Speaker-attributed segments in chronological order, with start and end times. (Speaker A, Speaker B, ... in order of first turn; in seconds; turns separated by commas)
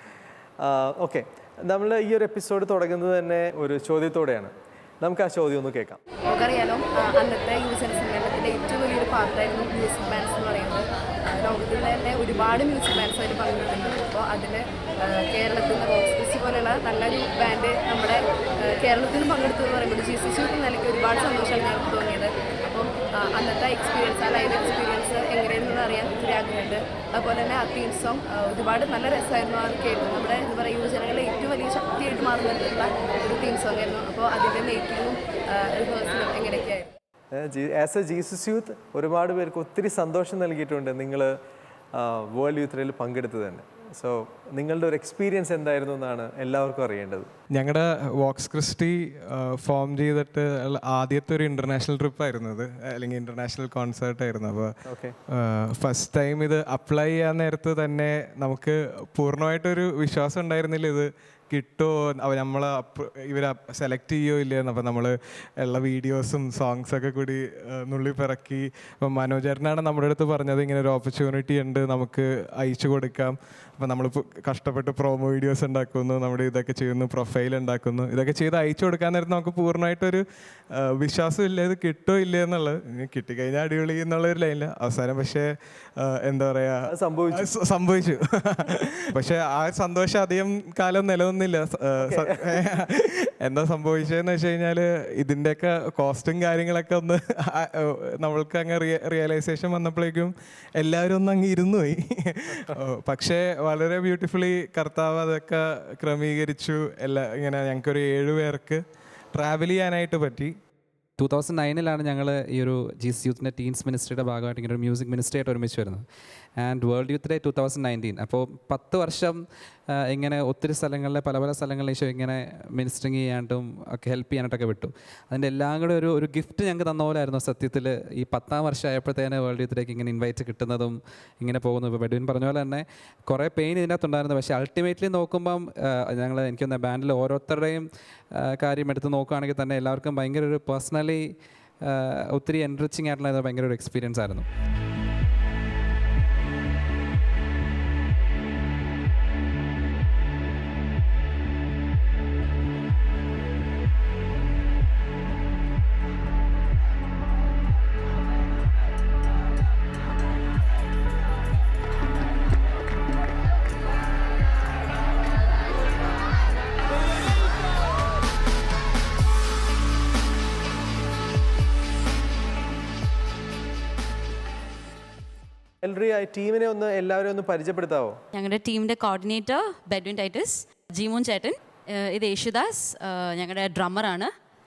Speaker A: 0.6-6.0, Speaker B: 6.3-36.9, Speaker A: 37.3-41.3, Speaker A: 41.9-47.3, Speaker C: 47.5-54.8, Speaker A: 54.9-55.2, Speaker C: 55.3-110.5, Speaker A: 86.9-87.5, Speaker A: 92.0-92.6, Speaker D: 111.2-116.0, Speaker D: 116.6-119.4, Speaker D: 119.9-144.4, Speaker A: 175.8-178.2, Speaker E: 178.3-184.3